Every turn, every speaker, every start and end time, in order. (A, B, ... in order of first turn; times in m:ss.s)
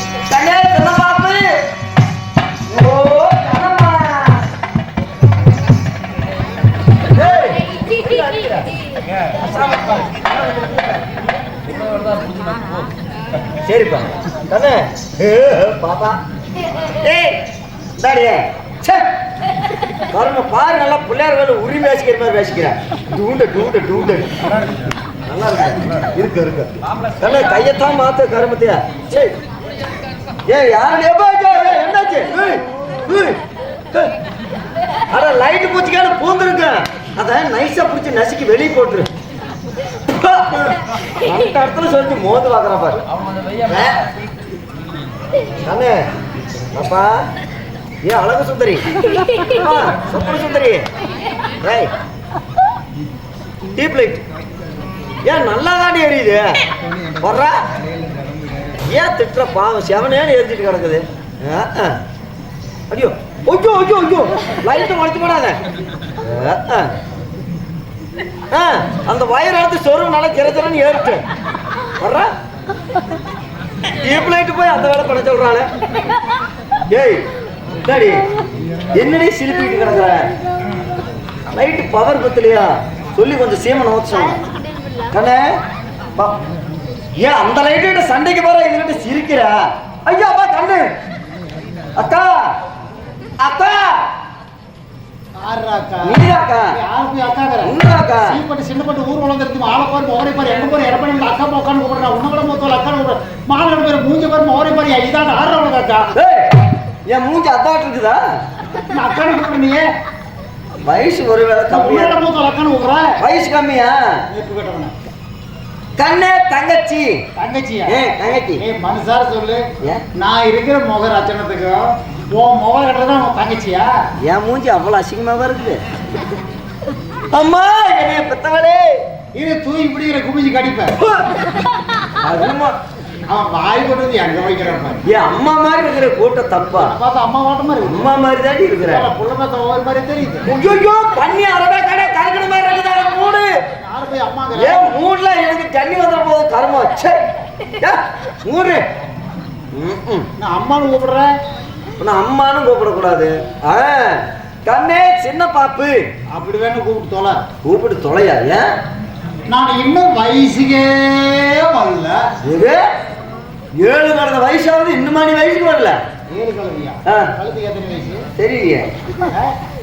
0:00.3-0:01.6 A
0:02.7-0:04.4 A
0:07.1-0:08.7 A
0:09.3-0:11.0 A
0:13.6-0:16.2 A
0:16.9-0:17.4 A
0:18.0-0:19.1 A
0:19.9-0:24.5 A
0:25.2-0:29.4 A
0:30.5-0:33.4 A
0:35.1-0:39.1 A
0:40.1-0:43.0 A
0:43.6-0:44.0 A
0:45.6-0:46.1 A
0:46.7-0:47.3 A
0:48.0-0:50.9 A
0:51.6-0:51.9 A
0:53.7-0:54.2 A
0:55.2-0:56.6 A
0:57.2-0:57.6 A
0:58.8-1:02.0 A
1:02.9-1:05.6 A
1:06.2-1:06.9 A
1:08.5-1:11.2 A
1:12.0-1:12.3 A
1:13.8-1:15.7 A
1:16.9-1:17.2 A
1:17.8-1:18.2 A
1:18.9-1:20.3 A
1:21.5-1:24.4 A
1:25.1-1:25.5 A
1:27.2-1:30.9 A
1:32.0-1:32.4 A
1:33.4-1:34.0 A
1:35.4-1:36.2 B
1:36.0-1:36.8 A
1:36.7-1:46.1 B
1:37.6-1:38.4 A
1:46.1-1:48.2 A
1:48.9-1:49.8 B
1:50.8-1:52.2 A
1:51.7-1:53.2 B
1:53.2-1:54.2 A
1:54.3-1:54.9 B
1:56.0-1:57.2 A
1:57.4-1:58.0 B
1:57.9-1:58.6 A
1:58.6-1:59.6 B
2:00.1-2:03.9 B
2:04.2-2:05.8 A
2:07.3-2:09.0 A
2:09.3-2:11.0 B
2:11.0-2:11.4 A
2:12.2-2:12.8 A
2:13.3-2:15.0 B
2:15.0-2:16.9 A
2:16.8-2:18.1 B
2:17.8-2:19.1 A
2:18.9-2:20.5 B
2:20.4-2:23.5 A
2:23.8-2:24.9 B
2:24.6-2:27.2 A
2:27.8-2:28.8 A
2:29.7-2:30.3 A
2:30.4-2:31.3 B
2:32.0-2:36.0 A
2:36.3-2:37.4 B
2:37.6-2:38.7 A
2:39.5-2:42.3 B
2:42.4-2:42.8 A
2:43.8-2:46.0 A
2:46.3-2:48.3 B
2:47.0-2:47.3 A
2:48.4-2:48.9 A
2:49.2-2:49.5 B